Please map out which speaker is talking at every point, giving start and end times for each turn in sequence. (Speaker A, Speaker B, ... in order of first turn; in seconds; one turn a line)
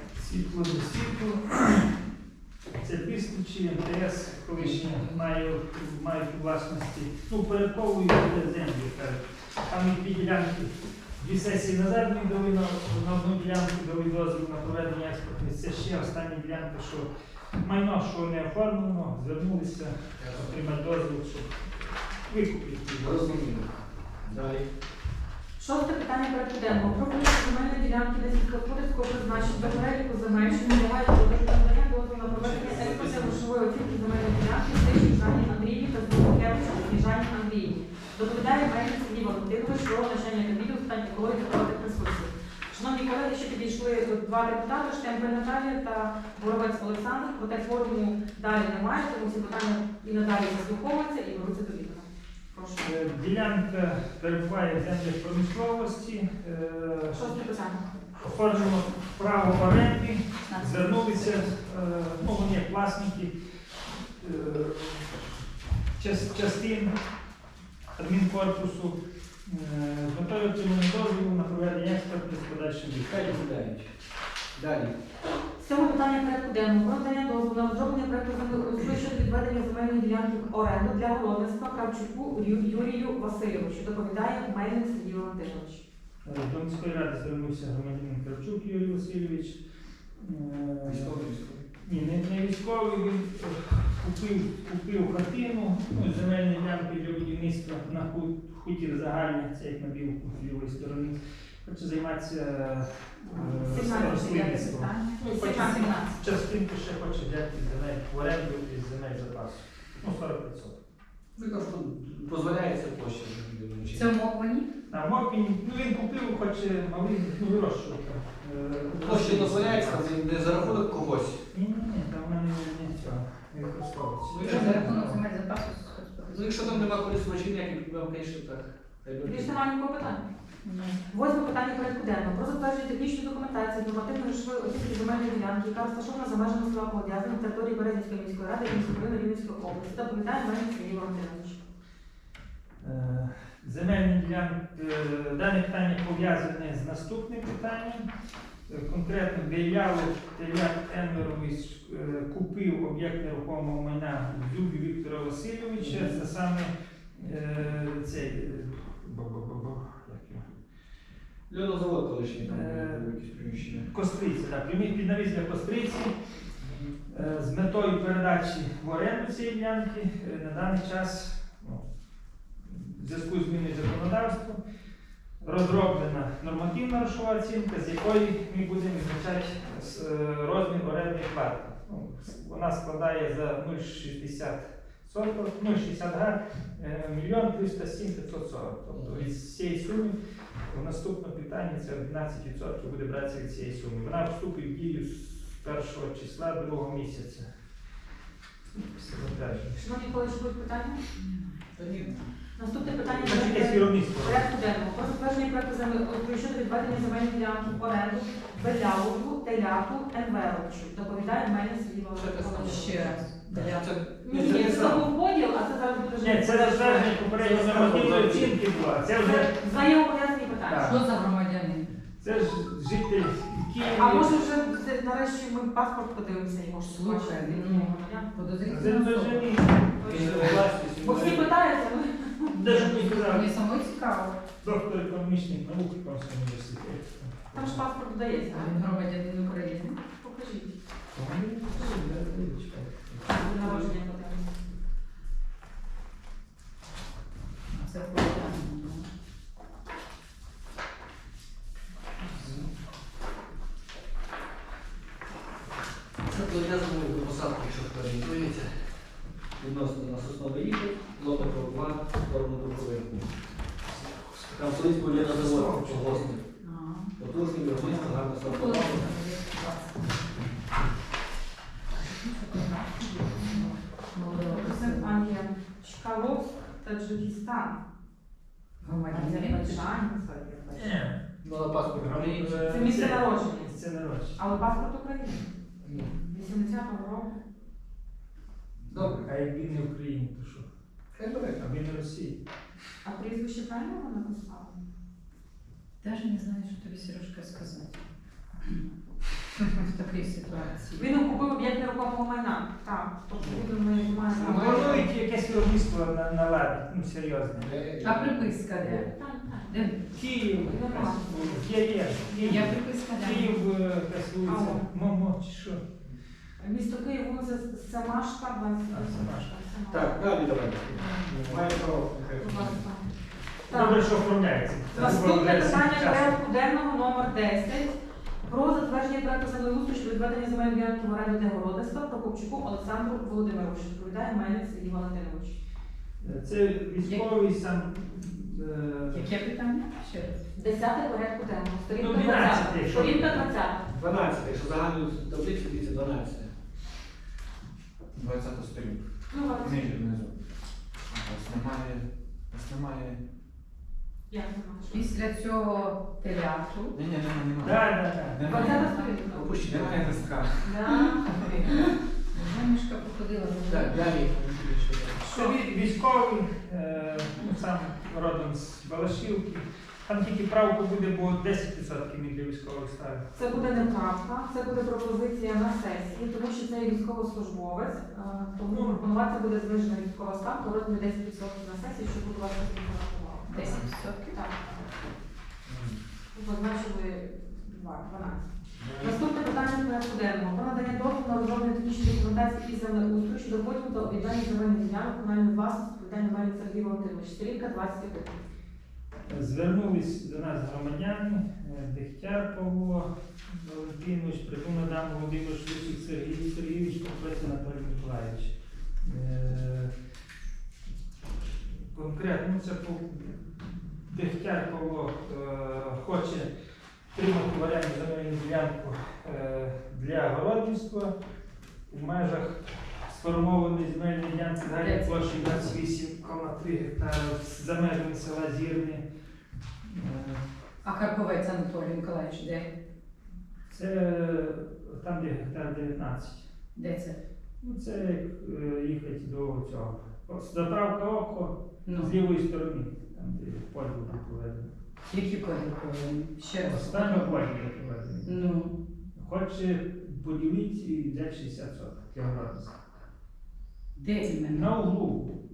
Speaker A: 0.1-1.9
Speaker A: 2.8-21.7
Speaker B: 4.6-5.2
Speaker B: 20.2-20.6
Speaker A: 22.2-23.4
Speaker B: 23.0-23.7
Speaker B: 24.2-24.6
Speaker C: 25.6-52.9
Speaker B: 29.4-29.8
Speaker B: 32.4-33.2
Speaker D: 32.6-33.4
Speaker A: 52.8-57.4
Speaker C: 57.1-58.0
Speaker A: 58.1-65.1
Speaker E: 60.5-61.4
Speaker A: 66.0-66.9
Speaker A: 68.0-73.3
Speaker B: 73.0-73.9
Speaker B: 74.5-74.9
Speaker C: 75.6-85.8
Speaker A: 86.2-89.6
Speaker A: 90.2-91.3
Speaker B: 90.8-91.6
Speaker A: 91.8-110.8
Speaker E: 103.2-106.0
Speaker C: 103.7-106.2
Speaker B: 111.3-114.1
Speaker E: 113.9-114.7
Speaker A: 114.9-120.8
Speaker B: 119.0-121.4
Speaker A: 121.5-125.2
Speaker B: 124.3-124.9
Speaker E: 124.4-126.8
Speaker B: 126.3-129.6
Speaker C: 129.2-130.3
Speaker E: 130.6-131.0
Speaker C: 131.1-141.6
Speaker A: 142.8-148.1
Speaker A: 148.7-160.4
Speaker B: 155.8-156.2
Speaker B: 161.5-163.9
Speaker A: 162.4-163.1
Speaker A: 163.7-166.1
Speaker B: 166.7-166.9
Speaker A: 167.1-171.8
Speaker A: 172.6-174.6
Speaker A: 175.4-190.2
Speaker B: 188.9-189.3
Speaker A: 190.7-197.5
Speaker A: 198.7-199.8
Speaker C: 199.8-201.0
Speaker B: 201.8-202.1
Speaker C: 202.6-213.1
Speaker A: 203.2-204.5
Speaker B: 212.1-213.0
Speaker E: 212.6-213.9
Speaker A: 213.5-213.7
Speaker B: 213.6-215.1
Speaker C: 214.2-217.4
Speaker A: 214.3-215.1
Speaker A: 216.2-219.5
Speaker B: 217.4-218.5
Speaker C: 219.2-220.9
Speaker A: 220.7-221.0
Speaker E: 220.8-221.9
Speaker A: 222.2-224.4
Speaker C: 224.0-228.3
Speaker E: 226.9-229.6
Speaker A: 228.7-231.2
Speaker C: 229.9-232.6
Speaker B: 230.0-231.4
Speaker A: 232.5-233.5
Speaker E: 232.6-234.4
Speaker A: 234.6-237.8
Speaker C: 237.5-238.7
Speaker A: 238.5-238.9
Speaker E: 238.6-240.0
Speaker C: 240.2-240.7
Speaker A: 241.1-243.3
Speaker C: 243.3-244.5
Speaker E: 247.7-249.1
Speaker B: 252.4-252.7
Speaker B: 256.2-258.8
Speaker B: 259.6-263.3
Speaker A: 263.9-266.3
Speaker B: 264.5-266.4
Speaker E: 266.6-267.1
Speaker B: 267.2-269.1
Speaker A: 267.8-268.2
Speaker E: 268.4-270.1
Speaker E: 272.5-275.2
Speaker C: 274.4-277.8
Speaker E: 278.8-279.9
Speaker C: 278.9-281.0
Speaker A: 280.7-281.2
Speaker B: 281.4-282.6
Speaker A: 281.9-284.4
Speaker C: 282.6-283.7
Speaker C: 284.4-287.4
Speaker B: 285.8-286.1
Speaker B: 288.8-289.3
Speaker A: 288.9-290.7
Speaker B: 291.1-291.6
Speaker A: 291.6-292.4
Speaker C: 293.0-294.8
Speaker E: 296.0-298.0
Speaker E: 299.6-301.1
Speaker C: 300.9-305.1
Speaker B: 303.4-303.6
Speaker A: 304.4-307.7
Speaker B: 304.4-304.9
Speaker B: 307.6-309.1
Speaker E: 308.0-309.1
Speaker C: 308.9-309.9
Speaker E: 309.7-310.0
Speaker A: 310.1-315.8
Speaker C: 310.5-311.6
Speaker E: 312.3-313.5
Speaker C: 314.4-314.9
Speaker C: 316.6-320.1
Speaker A: 318.9-319.5
Speaker B: 319.9-322.8
Speaker A: 321.2-321.6
Speaker C: 322.4-323.1
Speaker C: 323.7-324.0
Speaker A: 323.7-326.4
Speaker C: 324.9-335.6
Speaker A: 336.2-339.3
Speaker E: 339.1-340.4
Speaker C: 340.5-343.8
Speaker A: 341.9-343.4
Speaker B: 343.9-346.5
Speaker D: 348.1-350.3
Speaker C: 349.3-350.0
Speaker D: 351.1-353.2
Speaker C: 354.3-355.1
Speaker E: 354.9-356.9
Speaker D: 356.9-358.9
Speaker A: 357.6-358.7
Speaker E: 358.4-359.2
Speaker C: 358.4-359.6
Speaker B: 359.3-360.5
Speaker D: 359.7-361.4
Speaker C: 360.6-361.4
Speaker E: 360.9-364.1
Speaker B: 363.7-365.4
Speaker A: 365.3-373.9
Speaker C: 373.3-384.9
Speaker A: 378.7-379.0
Speaker E: 383.5-384.4
Speaker B: 385.7-386.0
Speaker C: 386.3-398.4
Speaker B: 388.8-389.1
Speaker A: 399.3-409.9
Speaker A: 411.9-416.5
Speaker A: 417.1-421.1
Speaker A: 421.9-429.0
Speaker E: 424.7-425.7
Speaker A: 429.8-430.4
Speaker E: 430.8-432.7
Speaker A: 433.7-436.4
Speaker E: 436.7-437.2
Speaker A: 437.6-444.7
Speaker E: 441.9-442.1
Speaker E: 445.1-447.4
Speaker A: 446.6-448.4
Speaker E: 448.2-448.7
Speaker A: 449.1-452.8
Speaker E: 453.9-454.7
Speaker A: 454.5-455.4